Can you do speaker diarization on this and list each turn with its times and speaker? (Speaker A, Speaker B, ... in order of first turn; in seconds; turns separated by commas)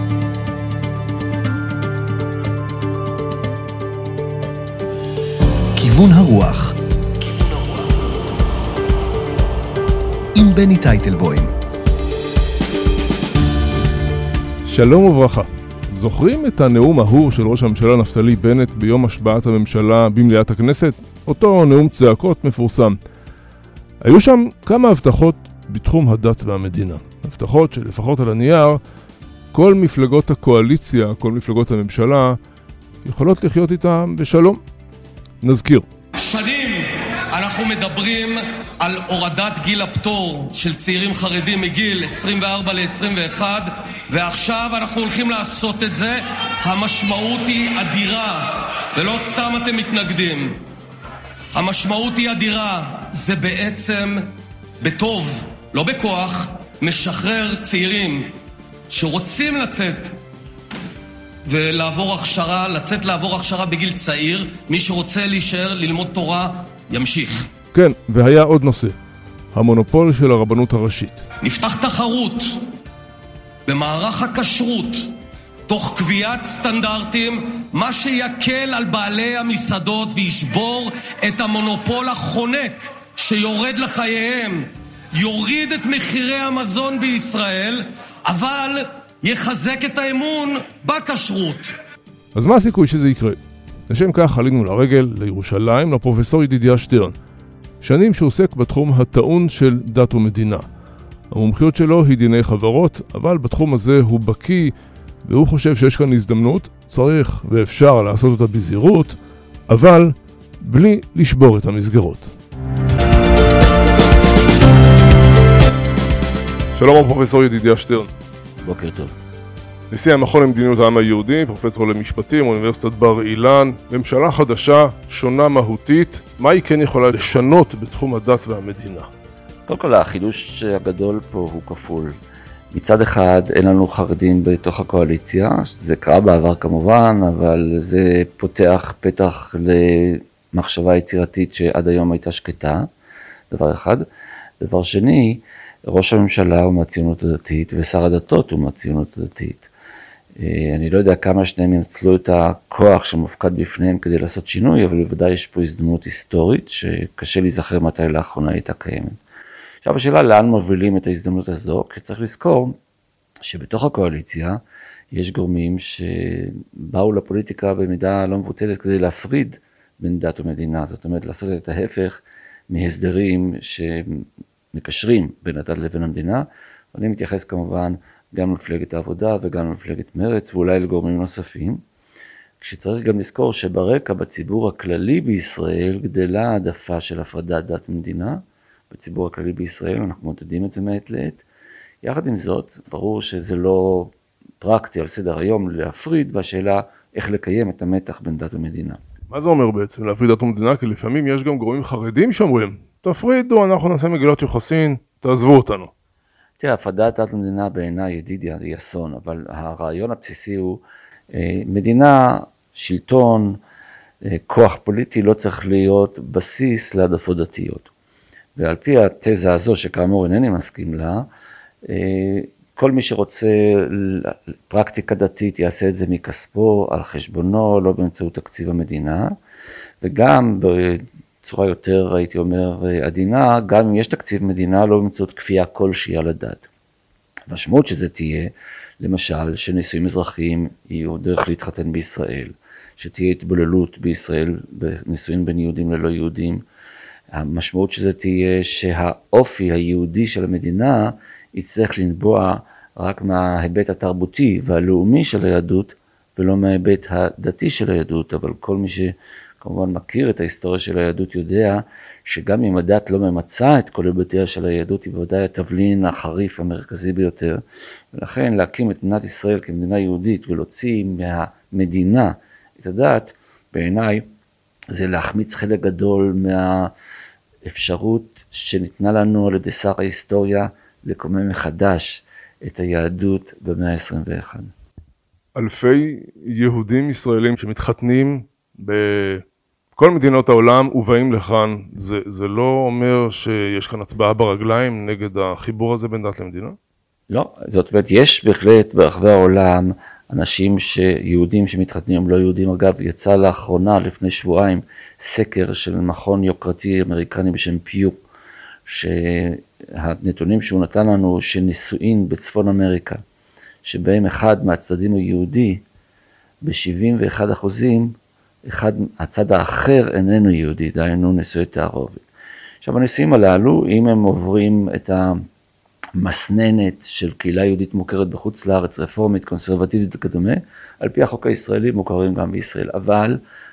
Speaker A: 5.7-8.1, Speaker A: 10.3-11.5, Speaker B: 14.7-23.0, Speaker B: 24.0-28.8, Speaker B: 29.5-32.4, Speaker B: 33.0-34.6, Speaker B: 35.4-35.9, Speaker C: 36.1-50.6, Speaker C: 51.5-58.4, Speaker C: 58.9-60.2, Speaker C: 61.4-67.5, Speaker B: 67.7-69.0, Speaker B: 69.5-71.2, Speaker C: 71.4-72.6, Speaker C: 73.7-75.1, Speaker C: 75.7-91.7, Speaker B: 92.3-97.1, Speaker B: 97.8-100.7, Speaker B: 101.3-104.7, Speaker B: 105.2-109.2, Speaker B: 109.7-112.3, Speaker B: 116.7-118.1, Speaker D: 118.6-119.1, Speaker B: 119.9-129.1, Speaker D: 129.7-132.1, Speaker D: 132.7-142.9, Speaker D: 143.5-144.0, Speaker D: 144.6-149.7, Speaker D: 150.4-159.2, Speaker D: 159.8-162.8, Speaker D: 163.4-164.6, Speaker D: 165.1-181.8, Speaker D: 182.6-191.4, Speaker D: 192.0-199.0, Speaker B: 199.3-205.9, Speaker D: 206.6-213.6, Speaker D: 214.2-217.9, Speaker D: 218.6-221.3, Speaker D: 221.8-229.3, Speaker D: 230.0-236.7, Speaker D: 237.5-246.6, Speaker D: 247.3-267.6, Speaker D: 268.1-274.2, Speaker D: 274.9-276.9, Speaker D: 277.6-284.7, Speaker B: 285.5-289.4, Speaker B: 290.0-296.8, Speaker D: 297.3-308.2, Speaker D: 308.9-313.2, Speaker D: 313.8-315.8, Speaker D: 316.6-322.2, Speaker D: 322.8-325.4, Speaker D: 326.2-333.4